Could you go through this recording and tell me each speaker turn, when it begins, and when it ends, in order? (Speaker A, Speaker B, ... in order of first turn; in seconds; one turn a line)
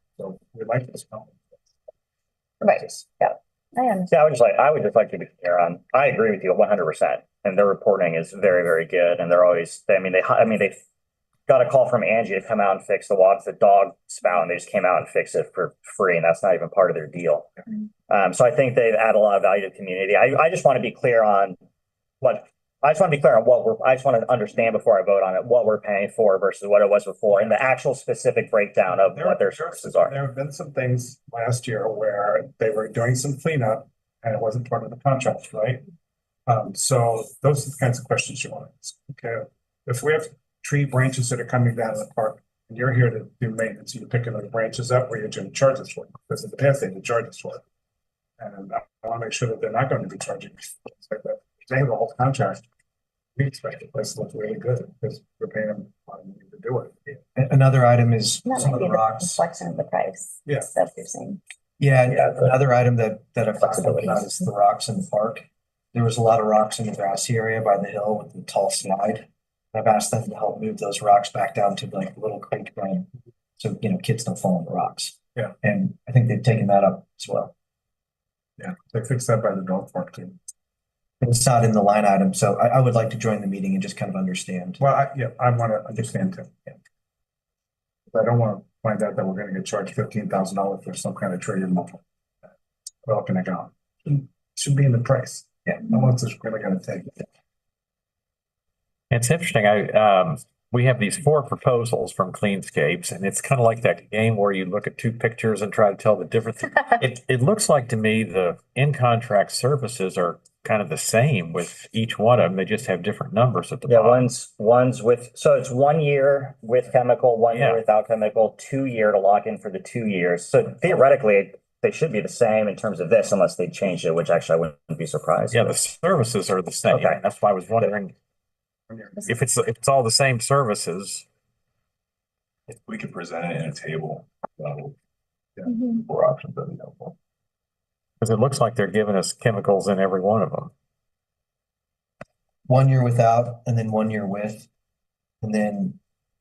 Speaker A: 0.2-1.4
Speaker B: 2.6-4.1
Speaker C: 4.1-10.8
Speaker C: 11.5-17.5
Speaker C: 18.1-21.6
Speaker C: 22.2-30.1
Speaker A: 27.3-27.6
Speaker A: 28.9-35.8
Speaker A: 36.5-47.6
Speaker A: 48.4-52.6
Speaker A: 53.4-57.2
Speaker D: 57.4-59.4
Speaker B: 58.5-61.4
Speaker D: 61.8-77.5
Speaker C: 63.6-64.1
Speaker B: 64.0-64.3
Speaker A: 78.6-80.4
Speaker D: 81.2-84.8
Speaker A: 84.8-86.6
Speaker A: 88.1-92.0
Speaker A: 93.0-97.2
Speaker E: 99.1-114.3
Speaker C: 113.8-125.8
Speaker E: 117.5-117.8
Speaker E: 125.5-128.1
Speaker C: 126.9-127.2
Speaker A: 128.9-129.4
Speaker E: 129.2-131.2
Speaker F: 132.7-134.9
Speaker F: 135.6-137.2
Speaker E: 138.2-140.7
Speaker D: 142.7-144.7
Speaker D: 145.4-146.0